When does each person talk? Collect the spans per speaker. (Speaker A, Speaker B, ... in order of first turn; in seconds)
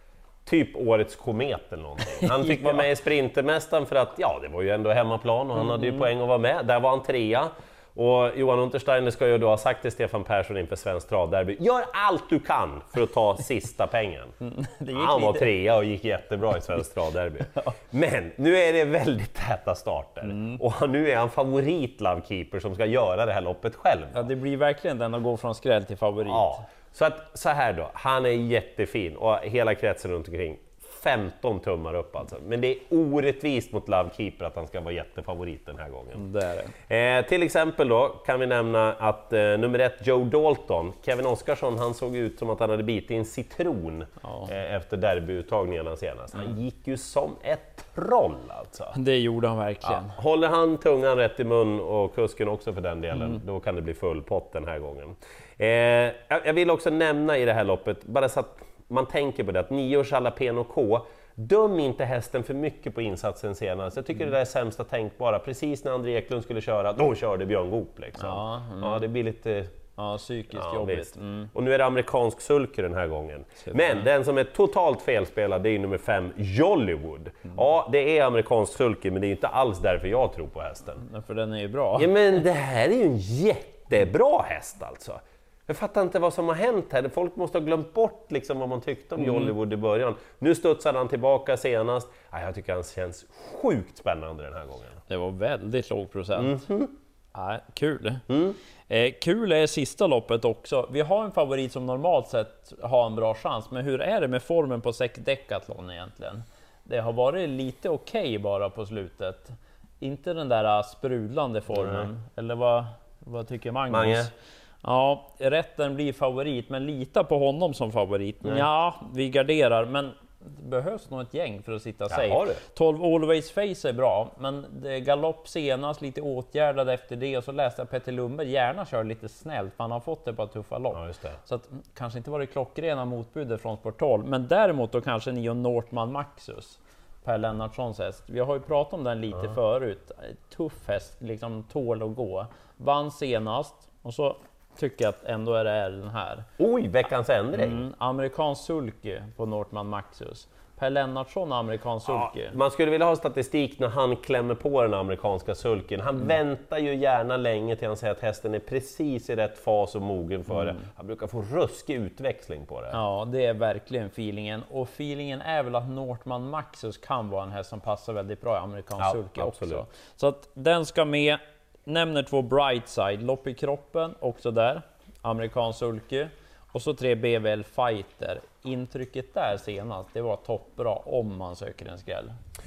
Speaker A: 0.4-14.3, 14.9-24.3, 26.2-36.2, 36.9-49.0, 49.8-69.7, 70.5-81.0, 82.0-95.0, 96.4-96.9, 98.3-98.6, 111.7-112.1, 113.9-114.3, 122.1-122.6, 130.9-131.4, 146.6-147.8, 152.1-163.0, 169.0-169.8
Speaker B: 14.4-15.5, 20.3-20.6, 24.1-26.6, 36.1-36.7, 48.9-50.1, 68.2-69.0, 70.0-71.5, 73.6-74.0, 81.0-82.1, 89.2-89.5, 95.1-96.6, 97.3-98.2, 98.9-114.3, 114.8-146.5, 147.6-152.6, 162.9-182.3